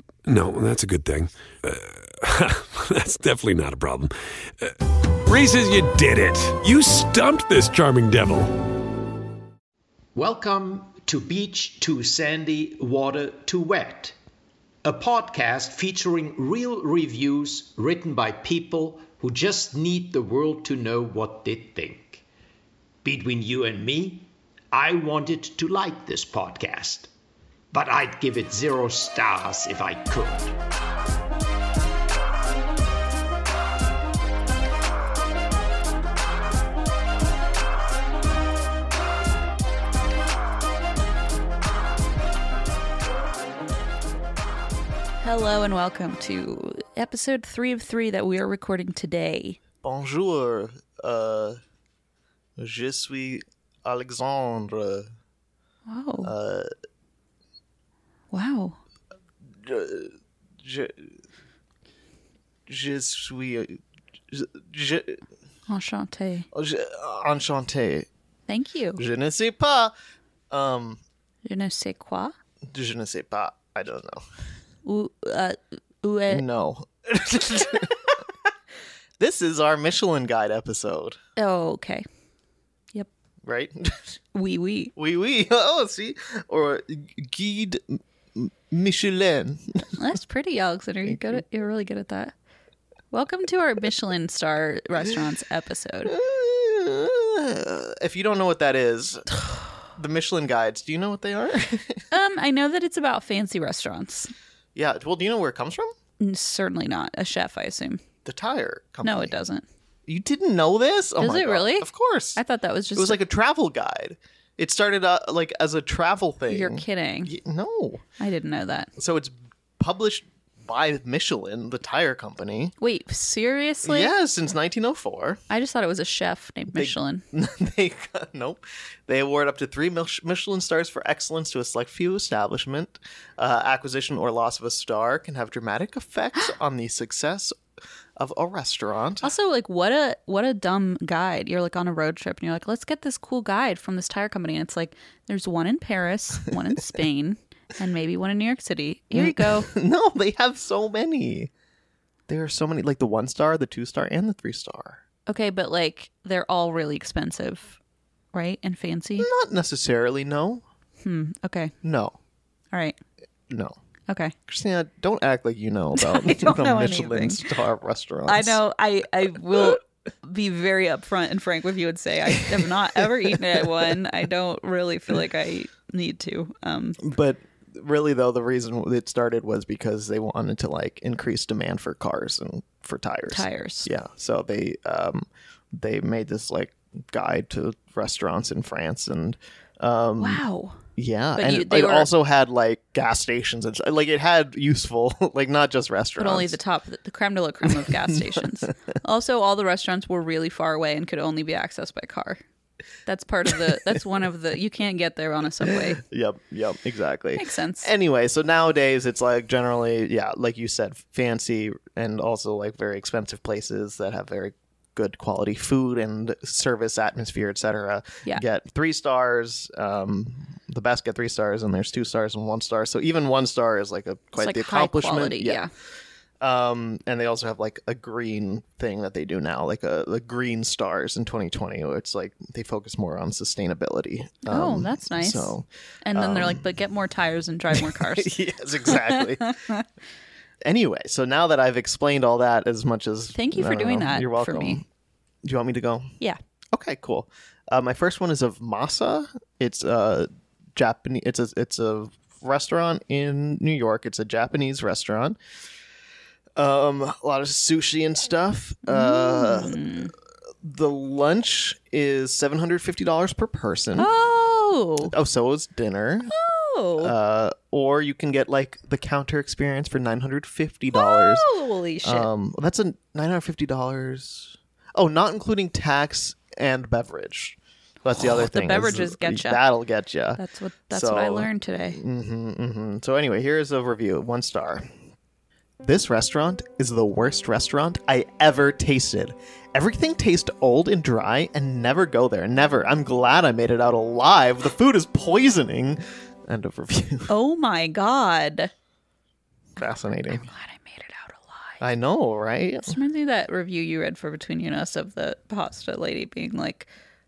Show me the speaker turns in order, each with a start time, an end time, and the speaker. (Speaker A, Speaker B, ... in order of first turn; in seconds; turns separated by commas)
Speaker A: 0.2-8.6, Speaker B: 10.2-14.2, Speaker B: 14.8-22.2, Speaker B: 23.0-27.1, Speaker B: 27.7-30.6, Speaker C: 45.2-49.6, Speaker D: 49.8-51.6, Speaker D: 52.6-55.1, Speaker C: 55.9-56.3, Speaker D: 56.2-56.7, Speaker C: 58.3-58.8, Speaker D: 59.6-61.1, Speaker D: 62.7-63.8, Speaker D: 64.3-65.2, Speaker C: 65.7-66.5, Speaker D: 66.5-68.1, Speaker C: 68.5-69.0, Speaker D: 69.0-69.9, Speaker D: 70.5-71.0, Speaker C: 71.5-72.3, Speaker D: 72.7-74.2, Speaker C: 74.8-76.5, Speaker D: 76.3-78.2, Speaker D: 79.2-81.2, Speaker C: 81.4-82.1, Speaker D: 83.4-84.2, Speaker C: 84.3-84.9, Speaker D: 85.0-90.0, Speaker C: 89.9-92.3, Speaker D: 91.1-91.4, Speaker C: 93.1-96.2, Speaker D: 96.1-102.0, Speaker C: 102.1-104.3, Speaker D: 104.8-105.9, Speaker C: 106.2-108.0, Speaker D: 108.2-109.4, Speaker C: 109.0-109.7, Speaker D: 110.1-112.4, Speaker C: 111.2-113.2, Speaker D: 113.0-118.0, Speaker C: 116.5-117.3, Speaker C: 118.2-118.9, Speaker D: 119.0-122.8, Speaker C: 122.8-124.1, Speaker D: 123.8-125.4, Speaker C: 125.5-127.2, Speaker D: 126.7-137.6, Speaker D: 138.2-139.3, Speaker C: 139.2-149.7, Speaker D: 149.1-151.5, Speaker D: 152.3-155.0, Speaker C: 155.3-157.8, Speaker C: 158.3-159.3, Speaker D: 159.2-160.6, Speaker C: 161.0-161.8, Speaker D: 161.8-162.2, Speaker C: 162.7-163.0, Speaker D: 163.5-163.8, Speaker C: 164.1-164.3, Speaker D: 164.5-168.6, Speaker C: 165.9-167.4, Speaker C: 168.3-177.0, Speaker D: 177.0-190.4, Speaker C: 183.3-183.9, Speaker C: 190.2-190.8, Speaker D: 191.0-196.6, Speaker C: 191.4-192.1, Speaker C: 196.2-202.4, Speaker D: 197.7-198.7, Speaker C: 203.1-206.0, Speaker D: 205.7-225.6, Speaker C: 207.4-207.9, Speaker C: 224.4-225.7, Speaker D: 226.4-236.7, Speaker C: 234.5-239.8, Speaker D: 237.7-239.6, Speaker D: 240.6-244.8, Speaker C: 243.3-244.8, Speaker D: 245.4-246.1, Speaker D: 246.7-255.4, Speaker D: 256.6-259.8, Speaker C: 258.9-260.1, Speaker D: 260.6-264.1, Speaker C: 264.0-265.1, Speaker D: 265.0-266.3, Speaker C: 266.3-267.1, Speaker D: 267.0-271.5, Speaker C: 270.9-272.3, Speaker D: 272.0-284.9, Speaker C: 278.1-279.6, Speaker C: 280.4-282.0, Speaker D: 285.8-297.3, Speaker C: 297.3-298.7, Speaker D: 299.8-300.5, Speaker C: 300.3-301.8, Speaker D: 301.8-303.0, Speaker C: 302.8-306.9